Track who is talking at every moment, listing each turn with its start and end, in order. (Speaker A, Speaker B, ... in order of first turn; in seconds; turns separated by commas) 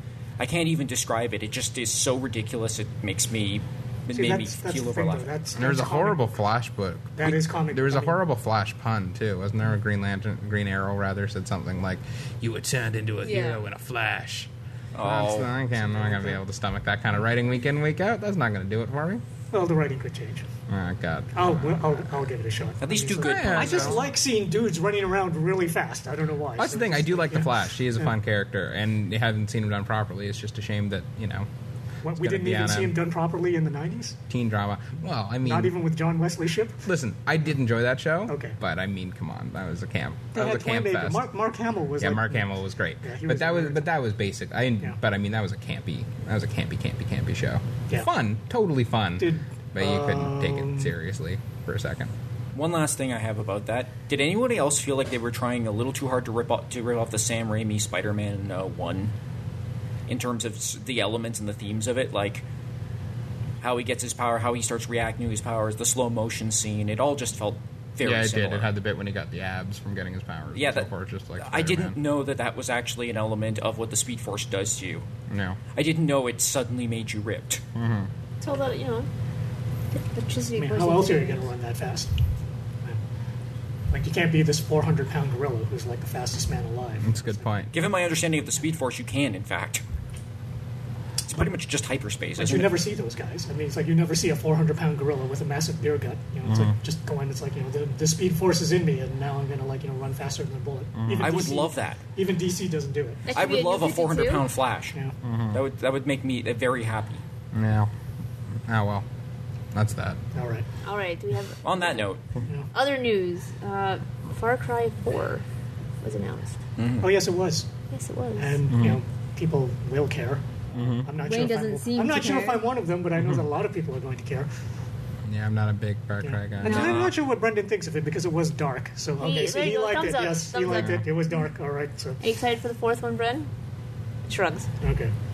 Speaker A: 0.4-5.3, Speaker B: 4.1-6.2, Speaker C: 5.5-19.2, Speaker B: 7.2-8.2, Speaker D: 13.2-13.6, Speaker A: 14.9-15.5, Speaker B: 15.7-16.4, Speaker B: 19.5-20.5, Speaker C: 20.7-22.0, Speaker B: 21.3-28.1, Speaker A: 22.8-24.1, Speaker C: 23.2-24.1, Speaker C: 26.6-31.5, Speaker B: 32.0-34.2, Speaker C: 32.1-33.0, Speaker C: 34.3-35.7, Speaker B: 35.4-36.8, Speaker C: 36.8-41.3, Speaker B: 38.3-38.6, Speaker B: 40.3-42.5, Speaker C: 42.0-52.1, Speaker B: 43.0-43.9, Speaker B: 49.2-50.9, Speaker A: 52.5-59.1, Speaker A: 60.1-62.4, Speaker A: 63.6-68.7, Speaker C: 68.0-72.0, Speaker A: 70.5-70.9, Speaker A: 71.4-75.1, Speaker C: 75.3-75.6, Speaker A: 75.7-77.6, Speaker C: 77.7-78.1, Speaker D: 78.4-79.1, Speaker D: 79.9-81.5, Speaker B: 80.5-82.1, Speaker B: 83.9-87.5, Speaker C: 87.0-87.7, Speaker A: 87.7-89.8, Speaker A: 91.2-92.8, Speaker B: 92.4-103.3, Speaker C: 96.5-96.7, Speaker C: 101.0-101.4, Speaker A: 101.2-102.0, Speaker D: 103.2-104.5, Speaker A: 103.3-105.0, Speaker C: 105.2-105.6, Speaker A: 105.5-107.2, Speaker C: 107.5-107.9, Speaker C: 108.7-109.0, Speaker C: 109.7-110.2, Speaker B: 110.3-110.7, Speaker D: 110.8-112.1, Speaker A: 111.6-112.2, Speaker D: 112.7-115.5, Speaker D: 116.0-116.6, Speaker A: 116.8-117.1, Speaker B: 117.0-117.7, Speaker D: 117.9-118.6, Speaker B: 118.4-124.5, Speaker C: 118.7-119.0, Speaker C: 120.7-121.1, Speaker D: 121.2-122.7, Speaker C: 125.2-127.0, Speaker B: 126.2-132.2, Speaker A: 126.6-127.2, Speaker D: 126.7-127.0, Speaker D: 129.2-131.5, Speaker C: 130.7-131.1, Speaker D: 132.2-133.5, Speaker D: 134.2-134.7, Speaker B: 134.8-135.1